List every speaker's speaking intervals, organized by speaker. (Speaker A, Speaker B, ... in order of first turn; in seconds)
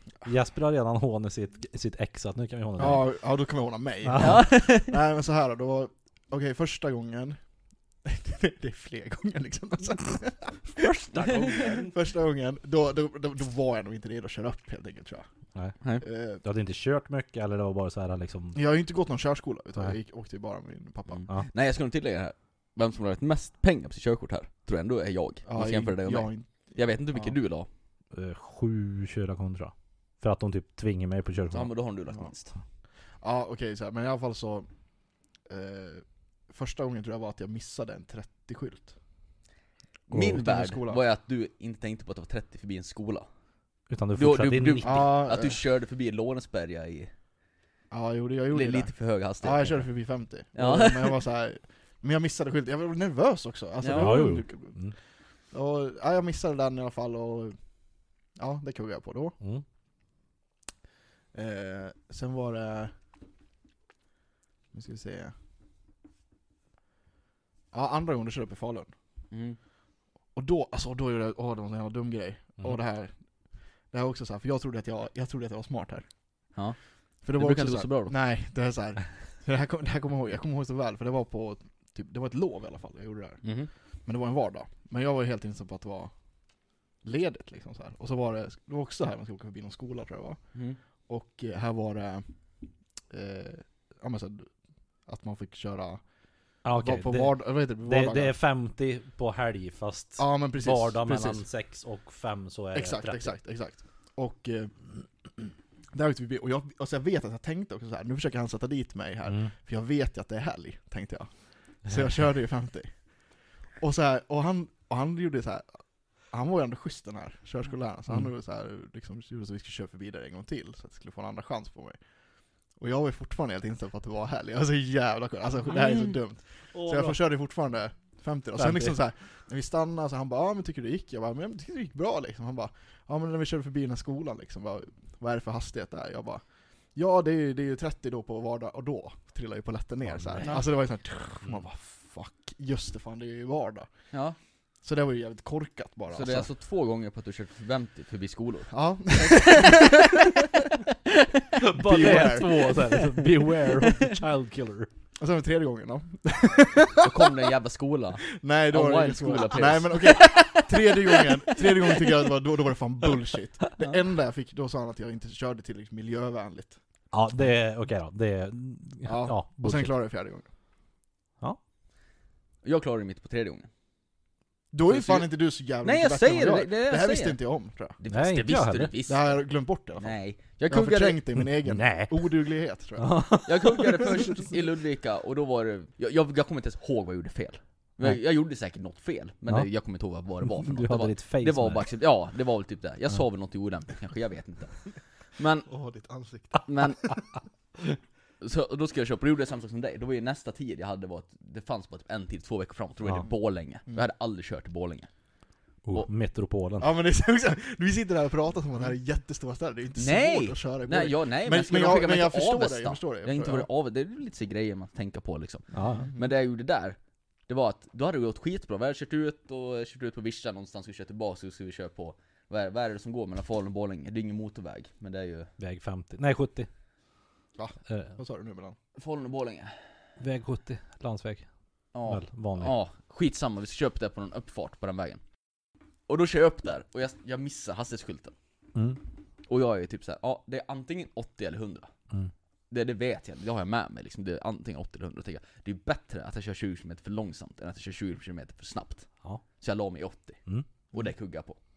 Speaker A: 0.2-3.0, 4.0-4.4, 10.8-11.9, 16.4-18.6, 28.1-31.7, 40.1-40.4, 43.9-45.0, 53.9-55.0, 96.6-103.3, 109.3-109.5, 126.7-127.2, 128.6-129.0, 151.6-154.9, 167.1-169.9, 178.1-178.9, 181.6-182.3, 183.0-184.4, 190.5-191.8, 205.8-206.9, 215.7-216.1, 225.6-226.7, 227.9-228.2, 230.2-231.5, 232.1-232.7, 238.8-239.0
Speaker B: 2.8-7.4, 8.0-10.6, 11.5-15.3, 16.0-16.4, 18.5-21.2, 25.5-26.5, 33.2-34.7, 35.5-38.9, 40.2-41.0, 44.8-45.6, 47.9-54.8, 55.5-57.6, 58.4-59.4, 61.3-62.9, 64.7-65.3, 67.7-68.9, 70.3-73.1, 73.9-76.1, 77.2-83.4, 84.1-86.1, 87.0-90.4, 91.1-92.3, 93.1-94.5, 95.1-96.0, 96.8-98.4, 100.2-101.5, 102.7-113.0, 113.8-115.7, 116.3-122.0, 122.8-136.4, 136.9-143.9, 144.8-146.5, 148.7-150.7, 151.6-152.8, 155.2-157.5, 158.3-166.8, 169.1-170.5, 174.7-178.0, 179.1-180.2, 180.7-184.3, 195.7-197.2, 206.8-213.7, 215.9-216.3, 227.6-228.8
Speaker C: 4.2-5.0, 11.3-11.8, 21.1-27.7, 31.5-32.6, 40.1-43.3, 44.1-47.1, 48.5-49.9, 50.5-51.2, 53.8-54.3, 69.3-69.6, 76.5-78.1, 83.4-83.7, 125.7-126.2, 140.4-140.7, 144.1-144.4, 146.1-150.7, 151.9-153.1, 157.0-162.1, 172.6-173.7, 174.9-175.3, 175.8-177.4, 178.0-179.4, 180.0-181.2, 183.5-195.7, 196.6-197.3, 198.4-205.1, 210.0-217.0, 217.5-225.5, 229.0-229.8, 231.9-235.2, 236.1-238.3, 239.5-241.9, 242.7-250.4, 250.9-251.6